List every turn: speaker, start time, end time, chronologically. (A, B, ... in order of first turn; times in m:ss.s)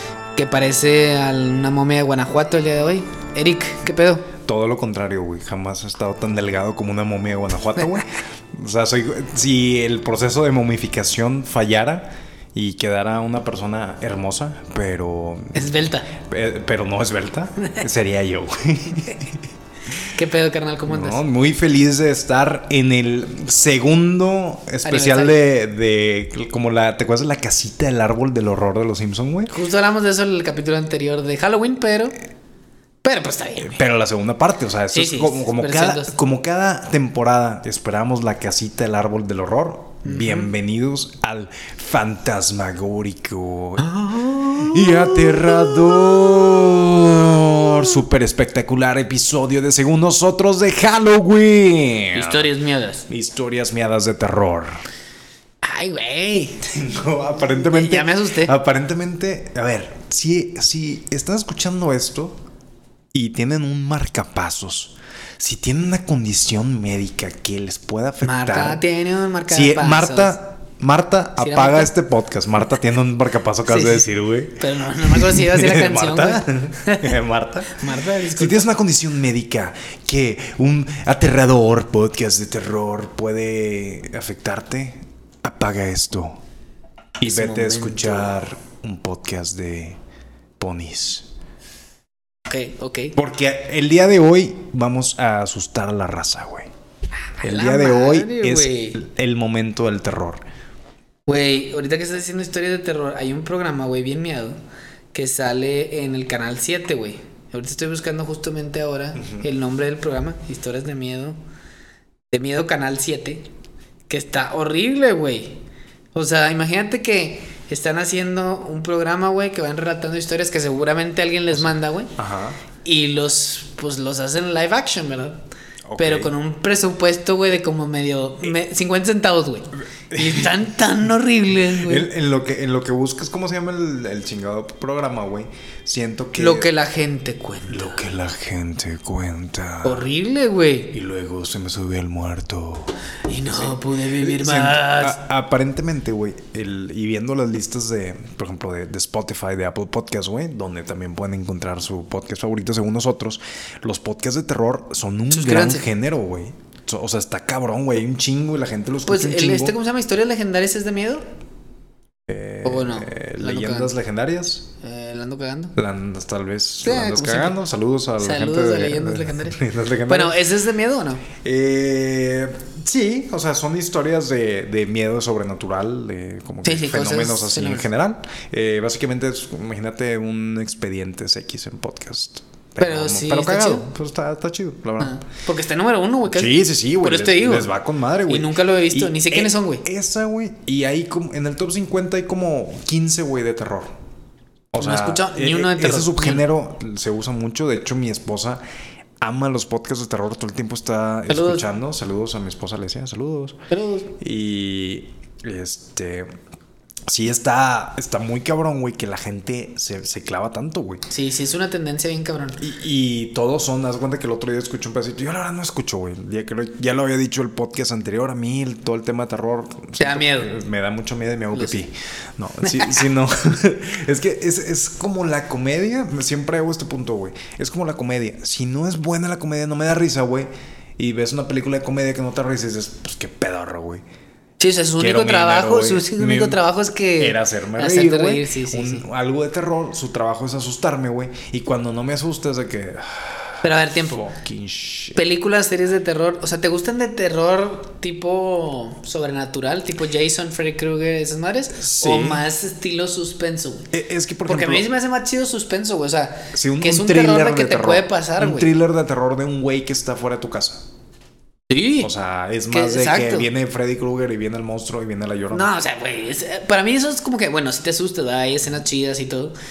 0:00.4-0:04.3 A
0:04.4-0:19.4 B
0:15.5-0:16.1 A
0:19.9-0:21.2 A
0:20.9-0:29.5 B
0:24.8-0:25.4 A
0:29.5-0:32.2 A
0:33.0-0:33.8 A
0:33.6-0:43.9 B
0:34.9-0:36.1 A
0:40.0-0:40.5 A
0:43.8-0:47.9 A
0:44.5-0:52.5 B
0:52.1-0:53.0 A
0:53.1-0:54.8 B
0:55.6-0:56.7 A
0:56.6-1:02.4 B
0:57.5-0:58.5 A
1:03.1-1:08.8 B
1:08.2-1:10.4 A
1:09.5-1:26.4 B
1:11.4-1:11.9 A
1:13.7-1:14.1 A
1:14.6-1:17.2 A
1:17.7-1:18.7 A
1:27.2-1:30.0 B
1:27.2-1:28.3 A
1:30.6-1:31.3 B
1:32.5-1:33.1 A
1:33.2-1:36.7 B
1:37.4-1:39.0 A
1:37.4-1:40.4 B
1:41.3-1:44.6 A
1:45.1-1:51.4 A
1:49.2-1:49.4 B
1:52.3-1:53.5 A
1:54.1-1:55.6 A
1:56.1-2:02.1 A
2:02.2-2:02.6 B
2:02.8-2:05.4 A
2:05.9-2:06.3 B
2:06.0-2:12.1 A
2:10.1-2:10.7 B
2:11.6-2:16.7 B
2:16.4-2:18.0 A
2:17.7-2:20.1 B
2:19.8-2:20.9 A
2:20.9-2:22.9 B
2:23.3-2:25.2 A
2:23.5-2:39.8 B
2:35.3-2:35.8 A
2:39.0-2:41.2 A
2:42.3-2:44.7 B
2:42.6-2:43.9 A
2:44.8-2:45.8 A
2:45.8-2:50.4 B
2:46.8-2:47.6 A
2:48.2-2:51.3 A
2:51.3-3:05.2 B
2:56.6-2:57.9 A
3:02.8-3:03.9 A
3:05.0-3:07.7 A
3:06.3-3:13.9 B
3:08.3-3:09.8 A
3:14.7-3:18.6 B
3:14.8-3:16.4 A
3:19.2-3:23.6 B
3:21.3-3:21.6 A
3:23.7-3:24.1 A
3:24.2-3:26.3 B
3:27.1-3:31.0 B
3:31.1-3:32.6 A
3:32.6-3:54.0 B
3:40.0-3:40.5 A
3:41.5-3:41.8 A
3:42.6-3:43.0 A
3:54.6-3:59.0 A
3:55.0-3:56.6 B
3:57.2-4:05.2 B
4:03.6-4:04.2 A
4:05.1-4:13.9 A
4:11.8-4:12.4 B
4:13.9-4:14.9 B
4:14.4-4:18.7 A
4:16.5-4:20.9 B
4:21.7-4:22.1 A
4:22.0-4:25.7 B
4:22.7-4:23.5 A
4:25.5-4:29.5 A